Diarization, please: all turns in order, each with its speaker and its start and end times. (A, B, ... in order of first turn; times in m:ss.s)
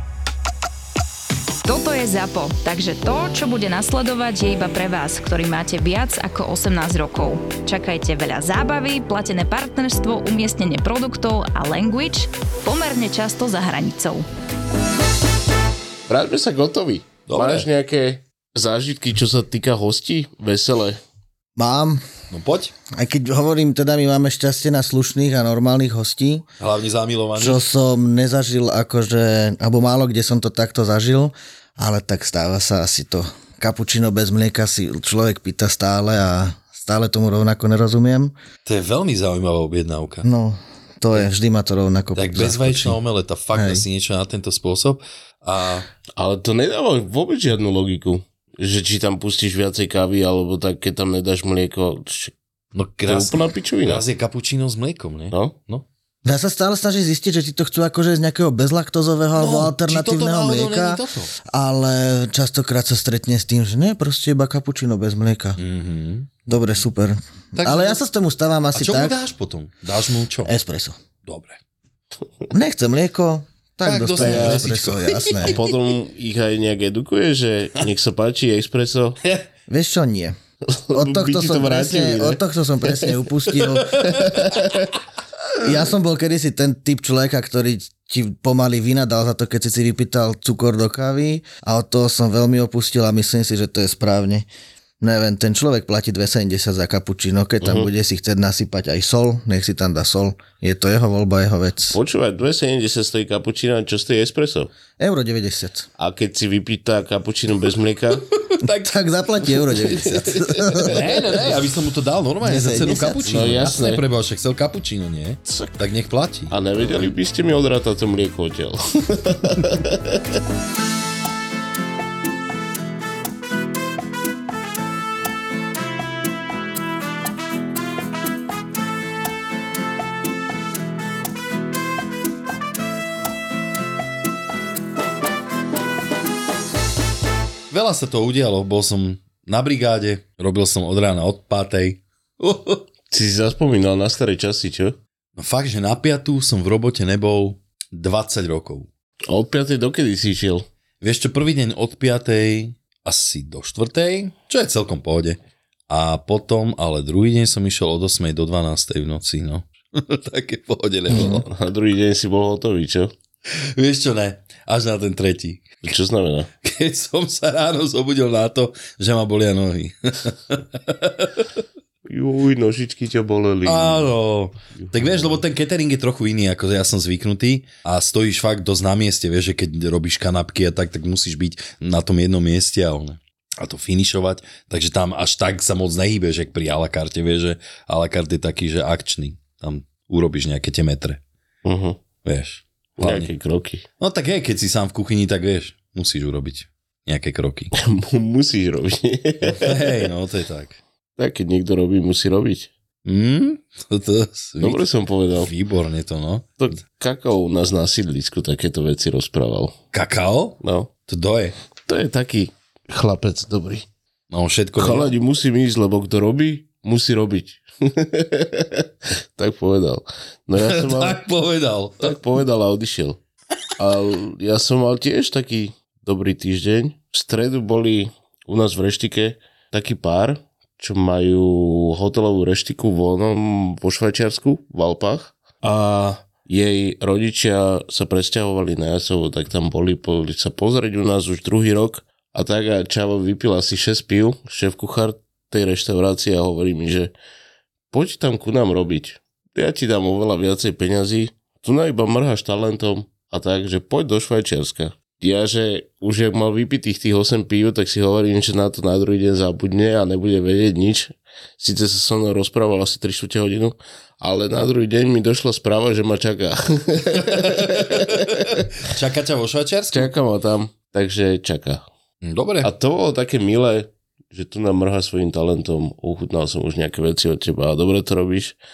0:01.6-0:14.3 A
0:16.1-0:21.0 B
0:17.3-0:17.7 C
0:21.6-0:22.0 D
0:22.3-0:22.7 C
0:22.9-0:26.5 D
0:26.6-0:27.6 C
0:27.4-0:38.3 D
0:38.6-0:40.3 C
0:40.2-0:43.0 D
0:42.2-0:45.9 C
0:43.6-0:43.8 D
0:46.2-0:52.3 B
0:52.7-0:55.8 C
0:53.1-0:54.0 B
0:56.2-1:05.6 D
0:59.4-1:01.3 C
1:05.6-1:06.3 C
1:06.5-1:09.2 D
1:07.6-1:08.0 C
1:08.7-1:10.5 C
1:10.4-1:11.0 D
1:11.3-1:11.6 C
1:12.5-1:15.6 D
1:13.8-1:15.6 C
1:14.2-1:14.6 B
1:15.4-1:19.2 B
1:19.7-1:20.4 D
1:20.7-1:23.1 B
1:20.9-1:24.0 D
1:24.0-1:24.9 B
1:24.0-1:24.4 C
1:25.6-1:34.5 D
1:35.0-1:42.0 D
1:41.9-1:44.7 B
1:45.0-1:45.9 D
1:46.0-1:48.3 B
1:48.4-1:48.9 C
1:48.6-1:51.0 D
1:49.7-1:51.2 B
1:50.8-1:57.1 C
1:52.4-1:53.7 D
1:53.3-1:54.0 B
1:56.5-2:00.2 B
2:17.7-2:22.8 C
2:23.1-2:25.0 B
2:25.4-2:28.9 C
2:29.3-2:30.7 B
2:31.0-2:35.4 C
2:35.9-2:41.4 C
2:41.1-2:43.1 B
2:43.8-2:45.8 C
2:45.8-2:46.5 B
2:46.6-2:51.3 C
2:52.1-2:54.1 B
2:53.6-3:11.2 C
2:54.8-2:55.3 B
3:11.6-3:12.0 B
3:12.2-3:13.3 C
3:13.0-3:13.8 B
3:14.0-3:17.7 C
3:17.7-3:20.0 B
3:19.5-3:20.8 C
3:21.2-3:22.7 B
3:23.0-3:24.8 C
3:24.6-3:25.5 B
3:25.4-3:26.6 C
3:26.6-3:29.8 B
3:29.9-3:31.6 C
3:30.6-3:30.9 B
3:31.9-3:33.9 B
3:34.3-3:35.1 C
3:34.8-3:41.2 B
3:40.6-3:42.2 C
3:42.0-3:43.2 B
3:43.8-4:07.1 B
4:07.9-4:28.6 B
4:27.2-4:28.3 C
4:28.8-4:30.1 C
4:29.9-4:31.8 B
4:32.2-4:32.7 C
4:32.6-4:38.6 B